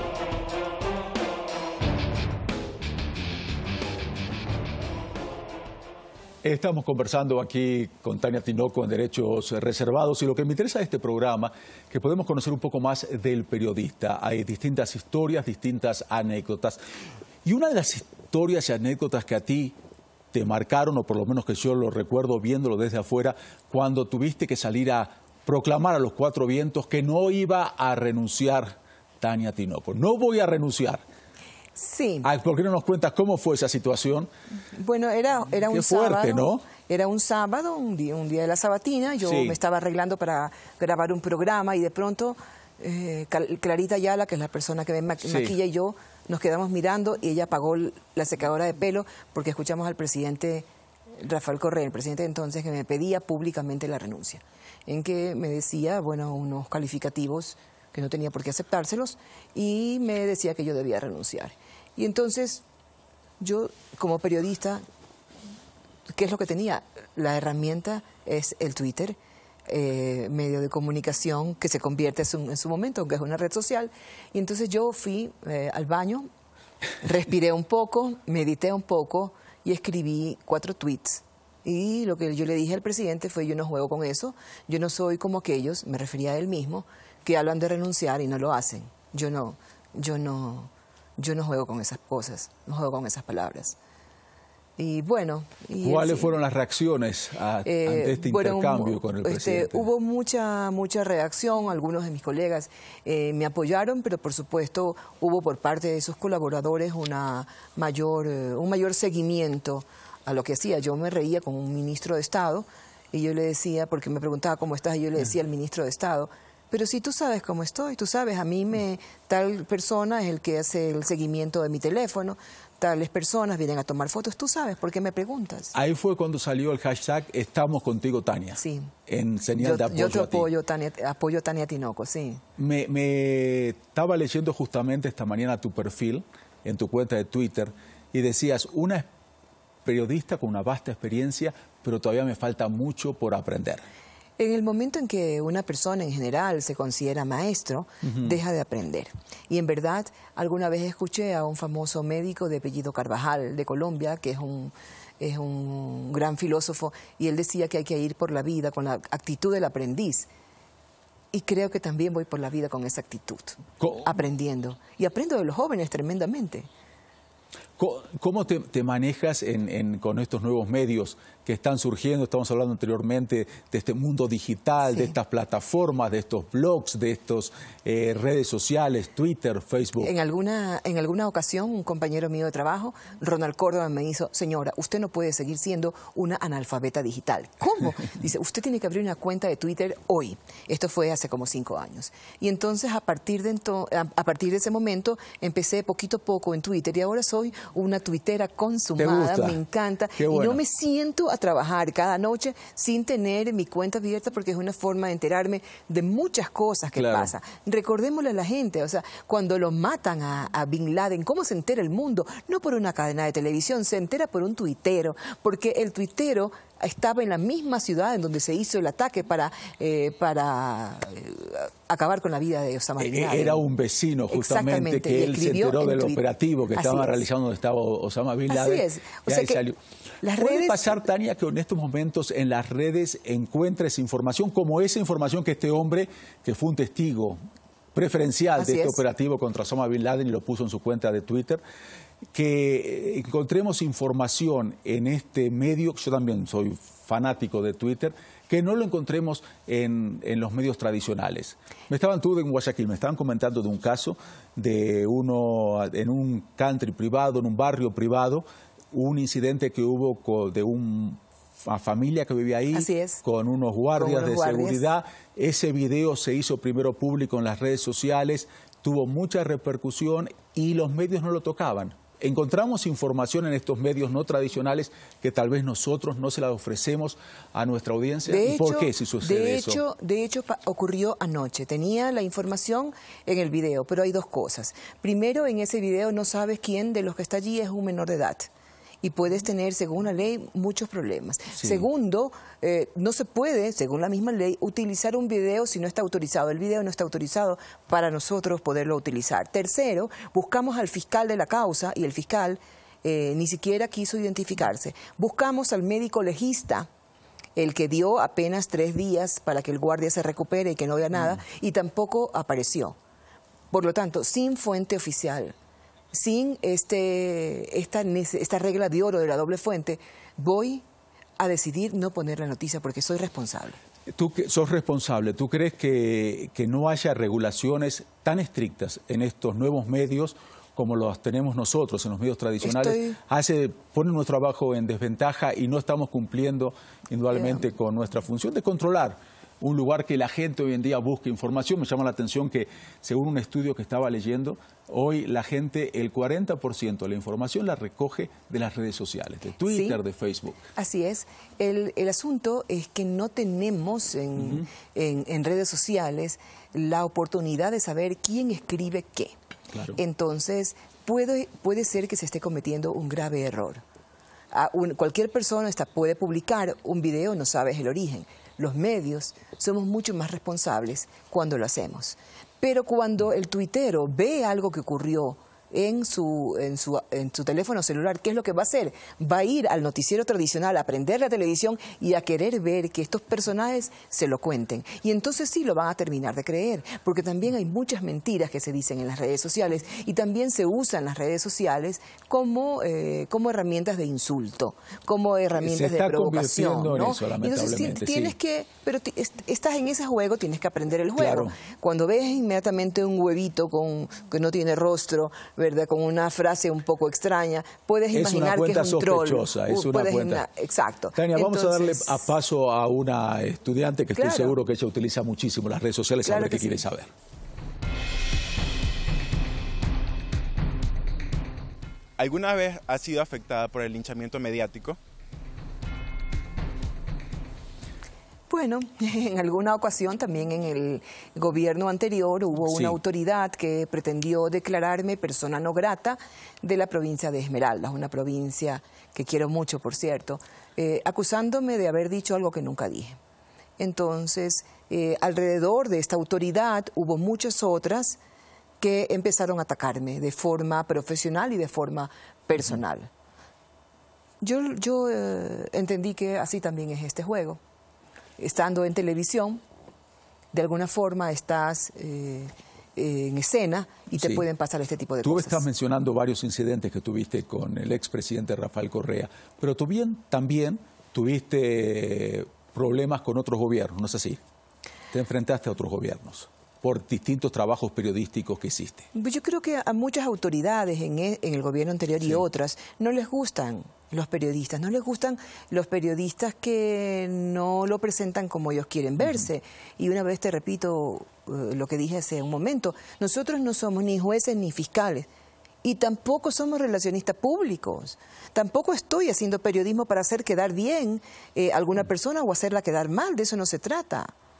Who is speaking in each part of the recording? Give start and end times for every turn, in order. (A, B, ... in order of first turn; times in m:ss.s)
0:06.4-0:16.8 A
0:17.4-0:19.8 A
0:20.3-0:31.0 A
0:31.8-0:32.3 B
0:32.2-0:34.3 A
0:34.7-0:50.6 B
0:35.6-0:36.6 A
0:39.2-0:39.6 A
0:45.2-0:45.6 A
0:51.2-1:02.6 B
1:03.4-1:04.8 B
1:06.1-1:16.3 B
1:17.0-1:33.8 B
1:34.8-1:36.3 B
1:35.8-1:39.9 A
1:37.6-2:05.7 B
2:05.7-2:10.5 A
2:08.6-2:08.9 B
2:09.6-2:12.4 B
2:12.6-2:19.1 A
2:19.8-2:23.8 A
2:24.4-2:40.3 B
2:41.3-2:46.7 B
2:43.8-2:44.1 A
2:47.8-3:00.1 A
2:54.8-2:55.2 B
3:00.0-3:43.7 B
3:19.0-3:19.6 A
3:20.2-3:20.6 A
3:26.9-3:27.3 A
3:43.0-3:57.4 A
3:44.3-3:46.2 B
3:46.7-3:47.2 B
3:48.5-3:49.6 B
3:50.2-3:51.0 B
3:57.9-4:01.6 A
3:58.6-3:59.0 B
4:02.3-4:39.8 A
4:22.7-4:23.2 B
4:23.9-4:24.8 B
4:38.3-4:48.5 B
4:49.0-5:06.9 B
4:51.6-4:51.8 A
5:07.6-5:13.0 B
5:13.7-5:15.5 B
5:16.1-5:20.8 B
5:21.4-5:23.8 B
5:24.1-5:50.6 A
5:32.6-5:33.2 B
5:49.7-5:50.0 B
5:50.8-5:59.3 B
5:54.4-5:54.6 A
5:59.7-6:00.0 A
5:59.9-6:03.8 B
6:04.5-6:52.2 B
6:35.6-6:38.4 A
6:41.1-6:41.5 A
6:48.1-6:50.4 A
6:51.1-6:57.1 A
6:54.1-6:54.6 B
6:56.2-6:56.8 B
7:02.2-7:05.0 C
7:08.5-7:23.2 B
7:12.6-7:13.0 A
7:23.8-7:28.2 B
7:28.8-7:33.1 B
7:34.4-7:37.6 B
7:38.4-7:39.6 B
7:40.5-7:45.6 B
7:44.2-7:44.4 A
7:45.2-7:54.4 A
7:55.1-7:59.1 A
7:59.1-8:15.3 B
8:15.8-8:24.3 B